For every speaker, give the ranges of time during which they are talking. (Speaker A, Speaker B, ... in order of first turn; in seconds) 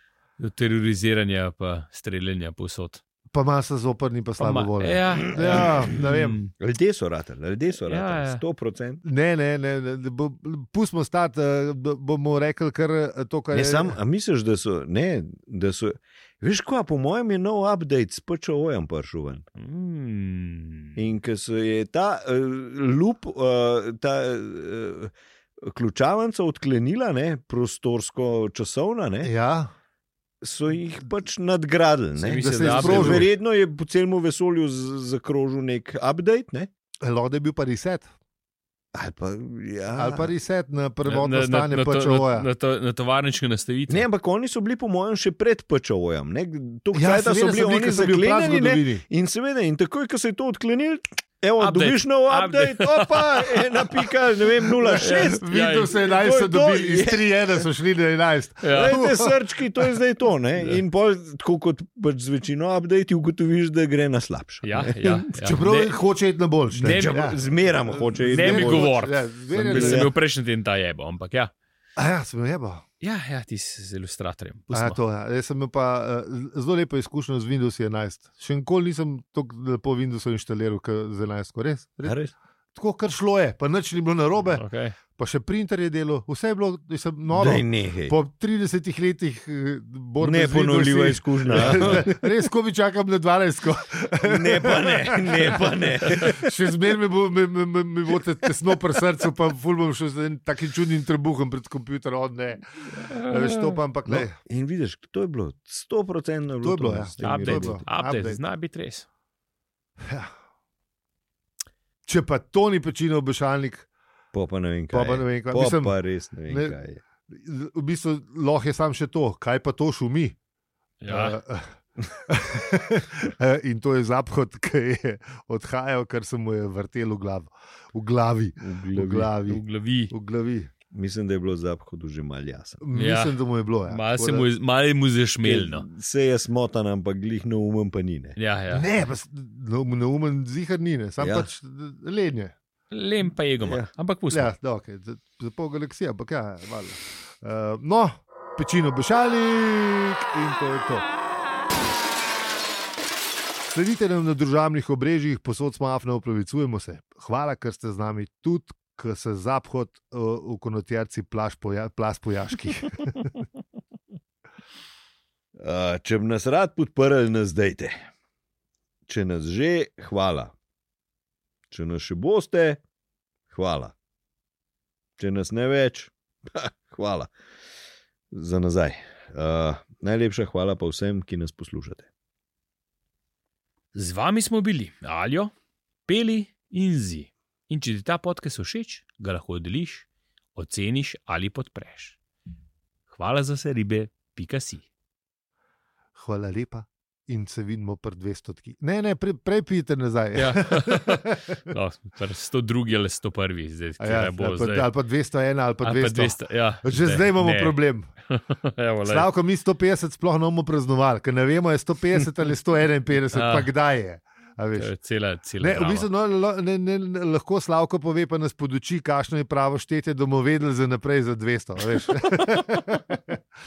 Speaker A: 0.4-3.0, 4.4-6.5, 7.8-8.4, 19.6-21.0, 32.2-33.3, 41.0-44.1, 51.6-53.8, 55.0-56.0, 58.6-59.0, 64.6-66.0, 66.7-67.3, 68.3-71.5, 73.0-75.0, 84.5-85.0, 91.5-92.0, 102.9-103.8, 107.2-109.1, 121.0-121.3, 129.3-130.1, 132.9-133.4, 133.9-135.8, 138.4-138.9, 142.9-144.5, 183.9-185.5, 186.1-192.2, 193.1-194.8, 200.3-204.9, 205.8-207.8, 208.3-209.3, 213.3-213.7, 214.8-216.1
Speaker B: 3.3-6.4, 9.0-14.0, 29.2-29.7, 32.4-33.3, 37.0-38.1, 39.9-42.5, 46.9-49.0, 54.8-59.9, 65.3-70.1, 72.0-72.8, 74.7-82.2, 82.8-104.4, 106.6-108.4, 110.0-110.3, 112.1-113.9, 114.9-120.3, 121.1-121.7, 122.3-130.7, 132.8-134.5, 138.7-142.6, 144.3-151.1, 153.7-163.3, 196.2-201.7, 204.0-208.1, 209.1-214.9, 215.6-223.4
Speaker C: 5.1-9.0, 13.5-19.5, 21.0-29.3, 30.4-36.7, 38.9-40.3, 43.9-57.6, 58.7-65.3, 66.8-70.2, 82.0-82.3, 87.3-88.2, 90.2-92.2, 94.2-96.5, 104.1-107.8, 114.3-117.0, 128.6-129.3, 130.9-132.8, 135.4-138.4, 141.2-141.5, 143.6-143.9, 165.6-168.1, 169.1-170.5, 171.7-172.8, 173.5-173.9, 175.2-177.3, 178.3-182.1